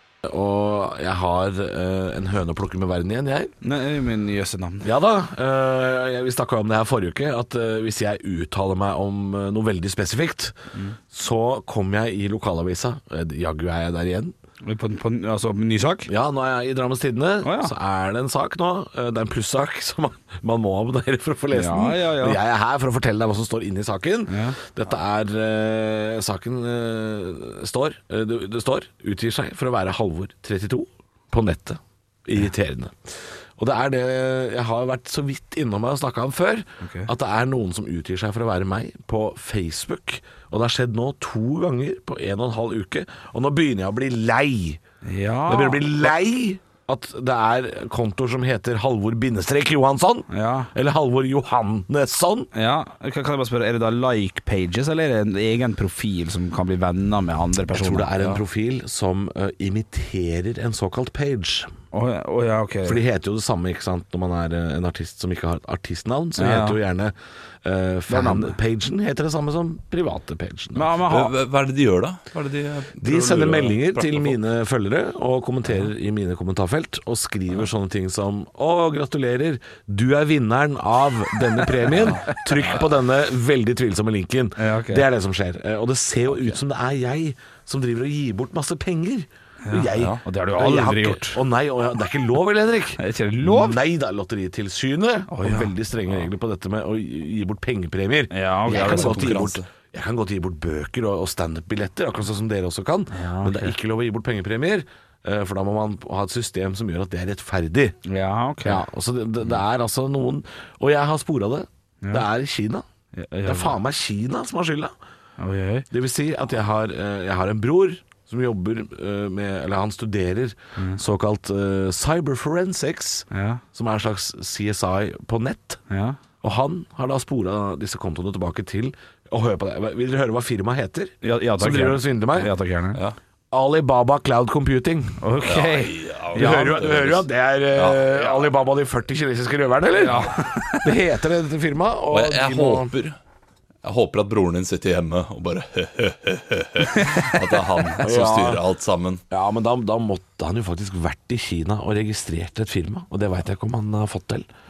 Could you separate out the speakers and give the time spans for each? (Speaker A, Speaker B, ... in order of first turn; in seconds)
Speaker A: 0.2-3.5, 4.8-10.6, 11.1-14.3, 16.1-44.8, 45.5-52.5, 57.7-61.7, 62.8-71.0, 73.0-108.0, 108.7-112.8, 113.5-114.9, 115.9-125.8, 126.4-132.5, 133.5-135.2, 136.3-140.2, 140.8-142.9, 148.0-148.6, 149.3-154.5
Speaker B: 3.6-4.9, 14.6-16.1, 17.4-17.7, 21.5-22.4, 24.3-24.6, 36.8-37.1, 45.0-45.9, 50.3-50.7, 52.5-58.4, 61.9-63.0, 66.4-66.8, 68.1-68.5, 70.8-71.3, 84.6-85.1, 89.6-91.4, 93.0-93.8, 95.3-95.7, 98.3-99.4, 103.1-103.7, 108.0-108.8, 113.1-113.8, 115.4-115.9, 123.3-123.6, 125.9-126.2, 131.2-133.0, 135.2-136.8, 139.9-140.9, 146.9-147.4
Speaker C: 71.1-74.4, 81.9-82.3, 89.9-90.2, 98.7-99.7, 135.4-138.2, 142.1-143.2, 143.8-149.2